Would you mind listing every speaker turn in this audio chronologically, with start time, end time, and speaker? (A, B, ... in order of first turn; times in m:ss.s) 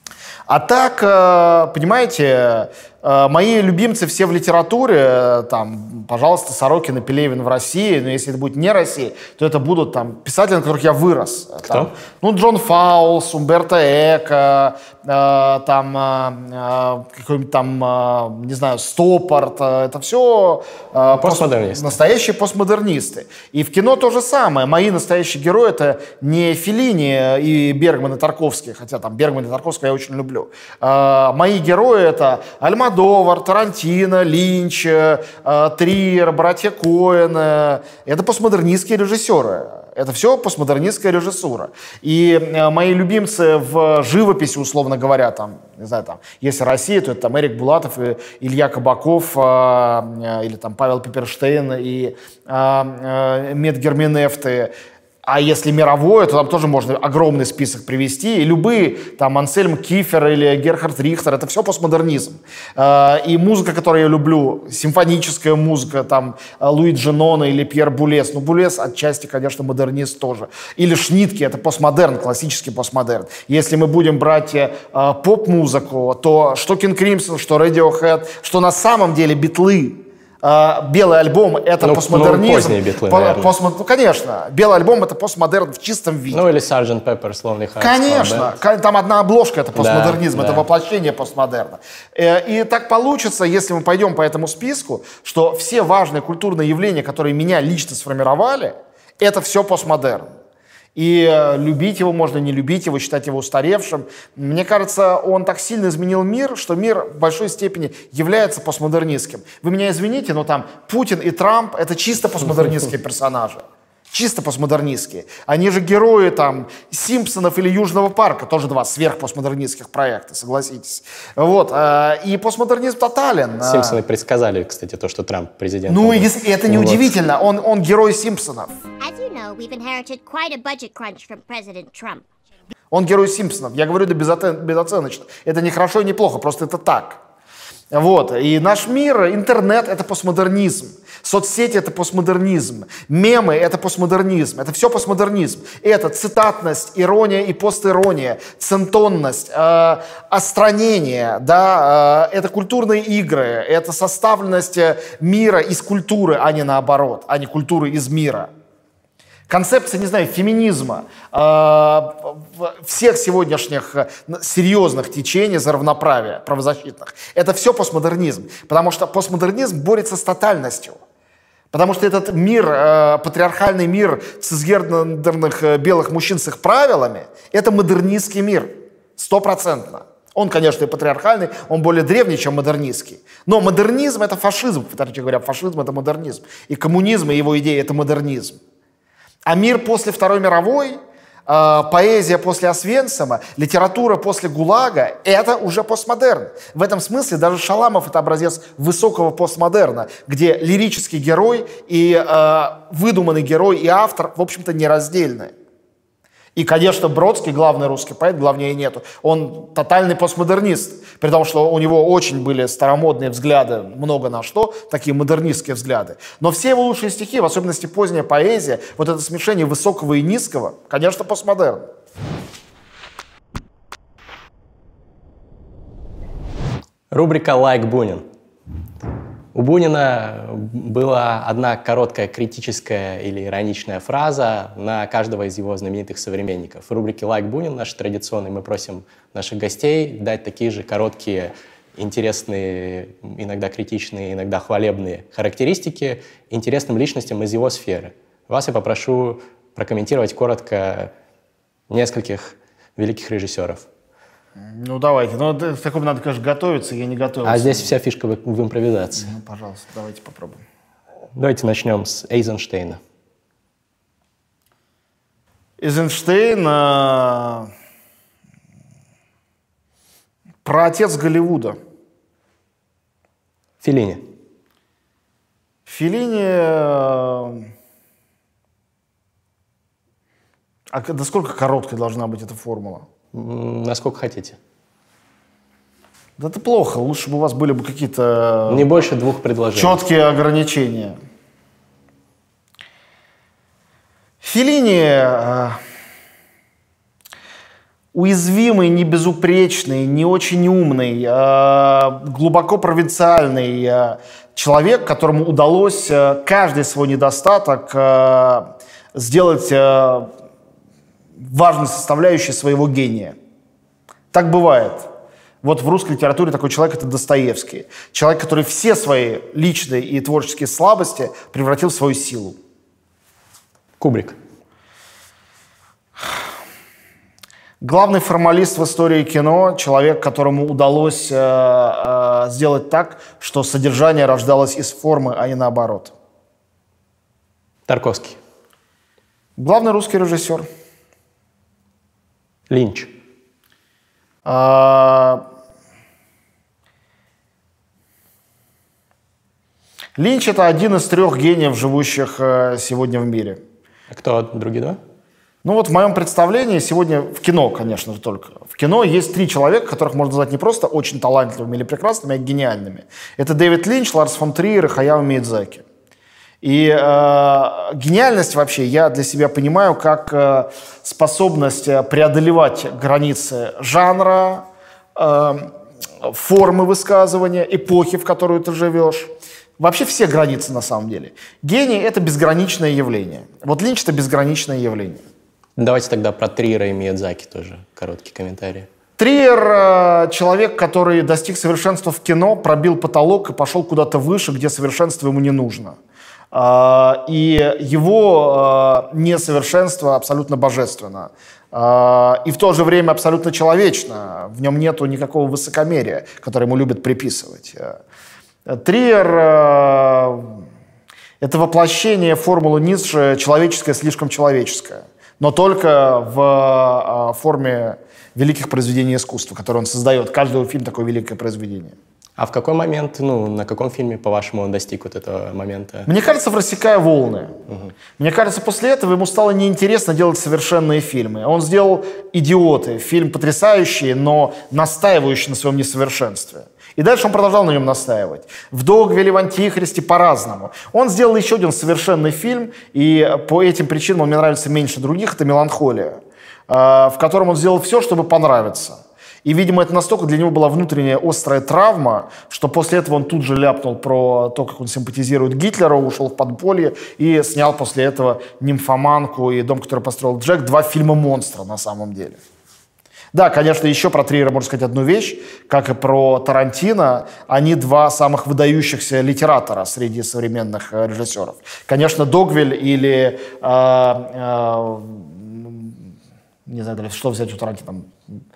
0:00.5-0:54.7 A
0:21.1-0:22.0 B
0:55.2-1:26.4 A
1:21.8-1:23.5 B
1:26.3-1:28.5 B
1:27.8-1:40.3 A
1:29.8-1:30.6 B
1:41.0-2:04.0 A
2:03.6-2:07.2 B
2:05.9-2:08.8 A
2:09.0-2:12.2 C
2:12.9-2:17.2 A
2:17.9-2:38.5 A
2:39.5-2:51.0 A
2:51.7-3:08.6 A
3:09.5-3:25.5 A
3:26.6-3:41.9 A
3:47.1-3:48.2 B
3:49.5-4:11.1 B
4:11.9-4:13.9 B
4:14.6-4:17.9 A
4:17.4-4:19.3 B
4:19.2-4:20.6 A
4:21.4-4:23.0 B
4:25.8-4:27.7 A
4:30.6-4:31.8 A
4:33.8-4:34.2 B
4:35.9-4:37.7 A
4:40.9-4:43.0 A
4:43.3-4:44.6 B
4:46.4-4:48.9 A
4:48.7-4:50.0 B
4:49.8-4:51.2 A
4:54.4-4:55.8 A
4:58.1-5:10.3 A
5:11.4-5:13.4 A
5:14.3-5:15.1 A
5:15.6-5:22.6 A
5:24.0-5:24.4 B
5:27.8-5:36.1 A
5:37.9-5:38.4 B
5:39.6-5:40.7 A
5:42.7-5:43.1 B
5:44.4-5:45.4 A
5:50.2-5:53.6 A
5:54.1-5:55.0 B
5:55.6-6:05.8 A
6:06.6-6:15.7 A
6:16.2-6:25.2 A
6:25.8-6:28.9 B
6:29.2-6:36.0 A
6:36.5-6:48.0 A
6:48.7-6:50.6 A
6:51.4-7:02.0 A
7:02.4-7:06.1 B
7:06.1-7:07.6 A
7:08.2-7:42.4 A
7:43.3-7:55.9 A
7:56.7-7:58.1 A